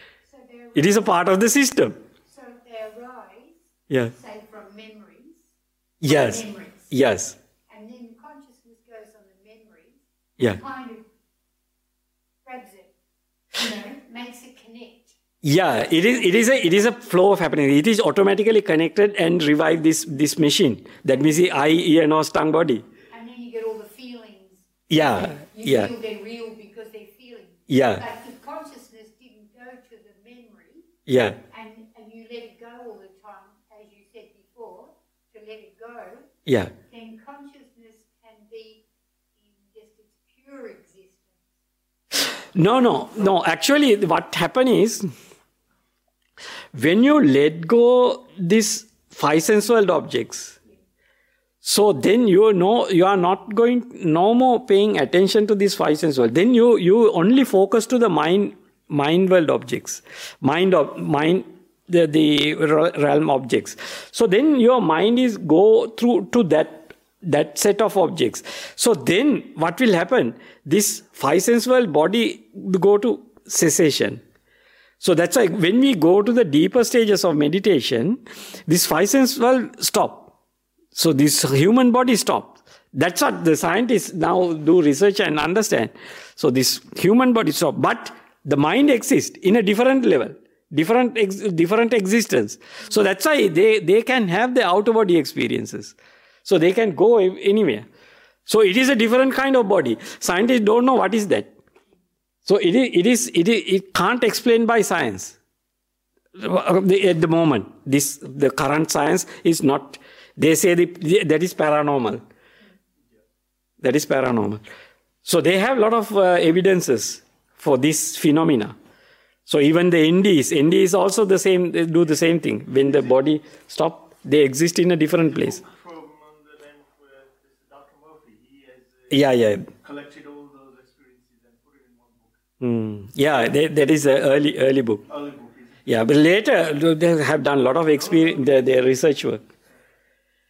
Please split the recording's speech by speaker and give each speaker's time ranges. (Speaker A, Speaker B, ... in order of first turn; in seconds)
Speaker A: 0.2-1.2, 2.2-6.9, 7.7-11.1, 12.4-12.9, 13.5-15.2, 15.8-16.9, 23.1-30.9, 31.5-36.3, 36.9-41.5
Speaker B: 0.7-2.0, 3.9-4.1, 6.0-7.3, 15.4-22.8, 24.9-25.9, 27.7-28.0, 31.1-31.4, 36.5-36.7, 42.3-45.1, 46.7-50.5, 51.6-74.2, 75.0-80.3, 80.9-97.9, 98.5-101.5, 102.4-105.4, 106.4-112.2, 113.8-114.6, 115.2-118.7, 119.5-125.6, 129.1-129.7, 132.6-135.0, 135.8-139.4
Speaker C: 122.7-123.2, 125.2-129.2, 129.8-132.4, 135.1-135.8, 137.9-138.7